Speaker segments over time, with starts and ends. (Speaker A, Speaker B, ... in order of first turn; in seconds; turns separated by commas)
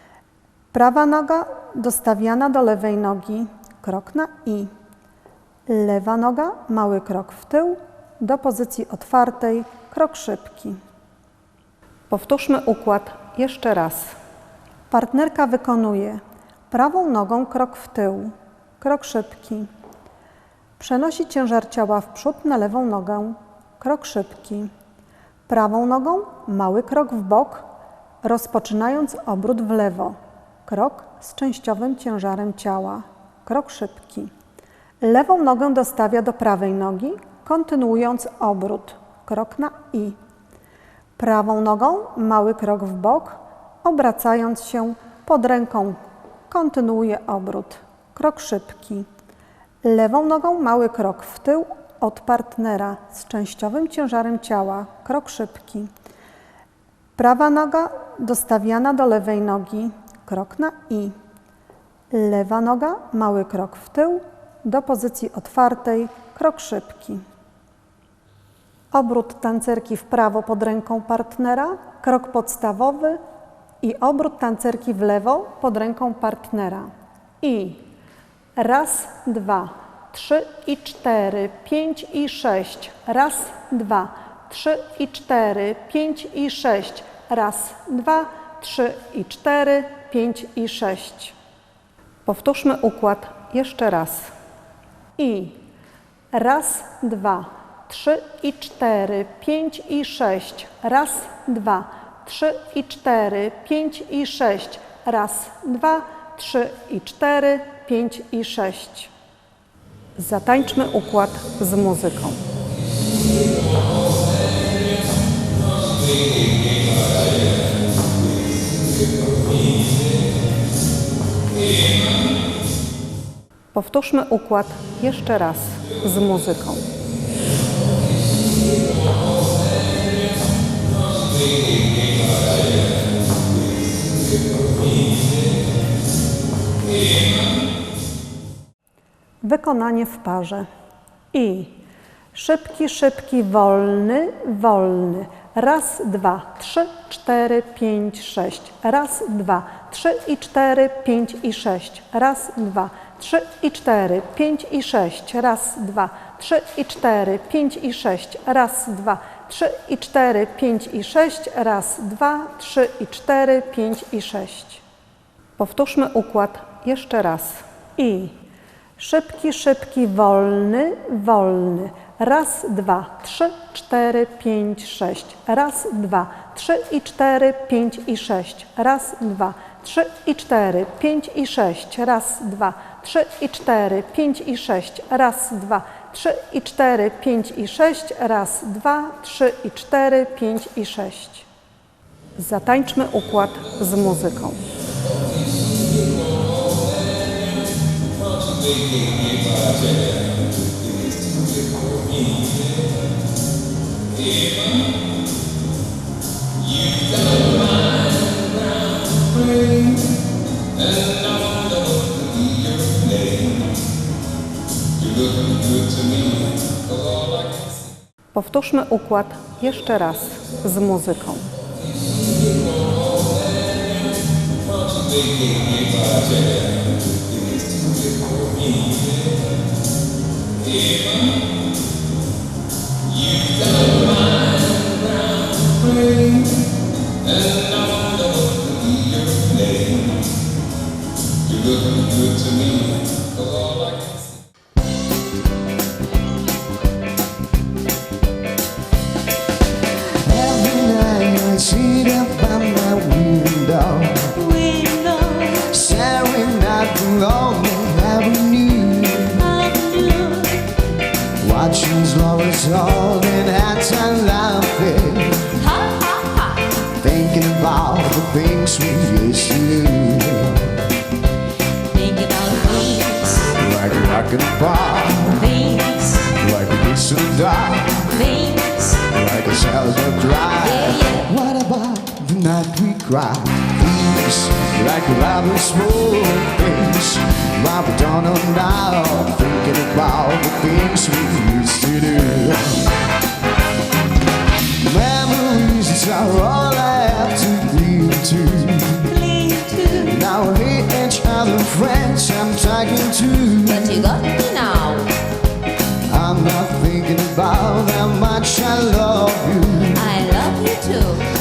Speaker A: 0.7-4.7, Speaker A: 5.7-10.8, Speaker A: 12.1-14.1, Speaker A: 14.9-19.7, Speaker A: 20.8-24.7, Speaker A: 25.5-27.7, Speaker A: 28.2-34.3, Speaker A: 35.0-40.2, Speaker A: 41.2-49.1, Speaker A: 49.8-55.9, Speaker A: 57.2-61.1, Speaker A: 62.1-67.2, Speaker A: 68.9-73.2, Speaker A: 73.8-76.9, Speaker A: 77.4-77.8, Speaker A: 78.6-91.3, Speaker A: 92.3-94.3, Speaker A: 95.2-95.6, Speaker A: 96.3-109.1, Speaker A: 110.2-112.4, Speaker A: 123.7-126.9, Speaker A: 139.4-140.7, Speaker A: 141.3-141.8, Speaker A: 142.3-164.8, Speaker A: 165.6-168.3, Speaker A: 169.0-191.5, Speaker A: 192.4-194.6, Speaker A: 218.3-221.5, Speaker B: 250.2-254.3, Speaker C: 254.3-255.7, Speaker B: 255.7-259.5, Speaker C: 259.3-260.6, Speaker B: 261.4-265.5, Speaker C: 265.6-266.7, Speaker B: 267.0-270.8, Speaker C: 271.9-273.6, Speaker B: 273.6-275.4, Speaker C: 275.2-276.3, Speaker B: 276.4-278.1, Speaker C: 278.1-279.1, Speaker B: 279.1-292.9, Speaker C: 280.6-281.3, Speaker B: 294.8-299.1, Speaker C: 299.0-300.2, Speaker B: 300.0-304.1, Speaker C: 303.7-305.1, Speaker B: 306.1-310.1, Speaker C: 309.9-311.2